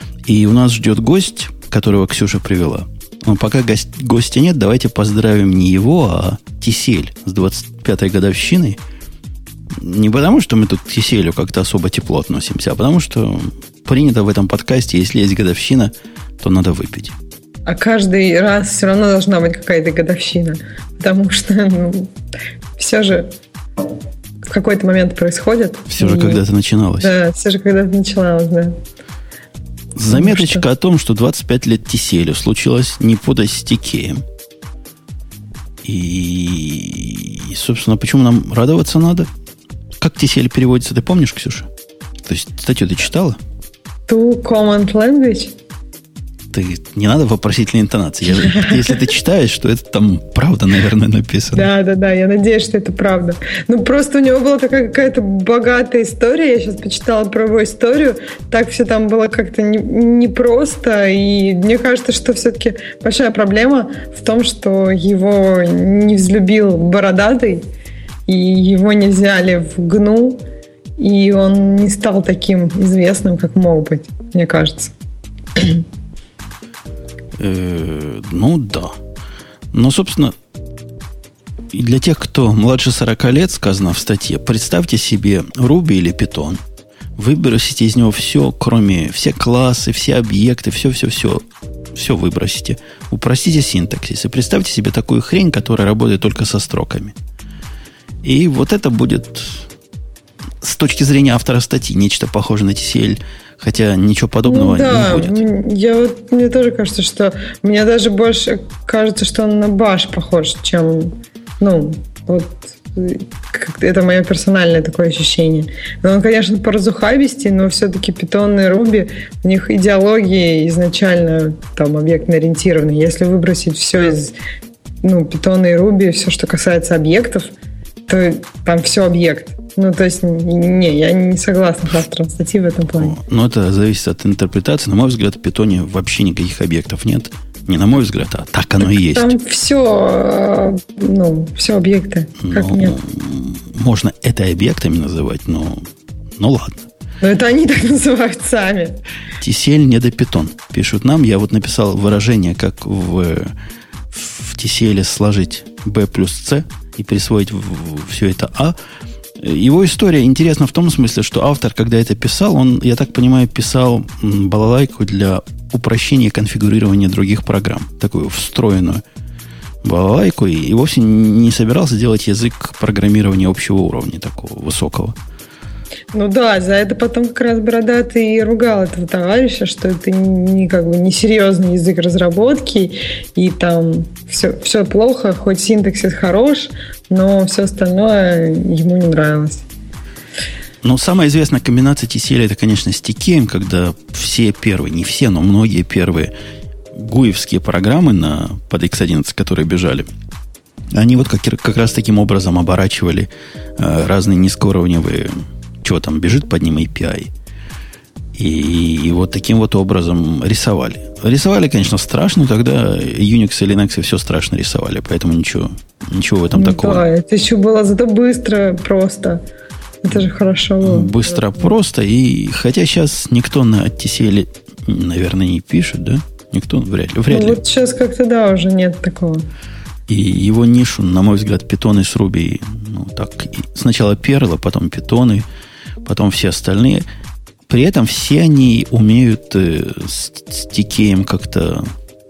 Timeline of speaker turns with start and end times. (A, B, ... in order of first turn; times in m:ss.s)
0:00.3-0:08.8 A
0:09.8-0:17.2 A
0:17.6-0:22.1 B
0:22.8-0:23.3 B
0:24.4-0:26.4 B
0:25.9-0:27.1 A
0:27.0-0:28.8 B
0:30.0-0:34.2 A
0:30.1-0:30.6 B
0:35.8-0:39.3 A
0:40.0-0:41.7 A
0:42.2-0:43.4 A
0:44.1-0:45.5 B
0:46.5-0:51.7 A
0:48.4-0:49.0 B
0:51.5-1:07.6 B
1:08.3-1:10.4 B
1:11.0-1:14.9 B
1:15.6-1:15.8 B
1:17.4-1:19.0 A
1:19.7-1:20.3 A
1:21.7-1:26.6 A
1:27.2-1:37.2 A
1:38.2-1:39.7 A
1:40.6-1:45.4 A
1:44.4-2:04.3 B
2:05.0-2:07.5 B
2:08.1-2:13.1 B
2:13.0-2:19.3 A
2:18.8-2:23.0 B
2:22.4-2:25.9 A
2:26.4-2:26.8 A
2:27.2-2:29.0 B
2:29.4-2:33.5 A
2:34.1-2:38.8 A
2:39.4-2:49.0 A
2:49.8-2:55.2 A
2:56.1-3:09.6 B
3:10.8-3:16.3 A
3:16.9-3:20.1 A
3:20.9-3:27.3 A
3:28.3-3:37.0 A
3:36.5-3:39.4 B
3:40.0-3:41.6 B
3:40.8-3:47.6 A
3:47.3-3:49.4 B
3:50.1-3:55.4 A
3:56.0-3:57.0 A
3:57.7-4:01.9 A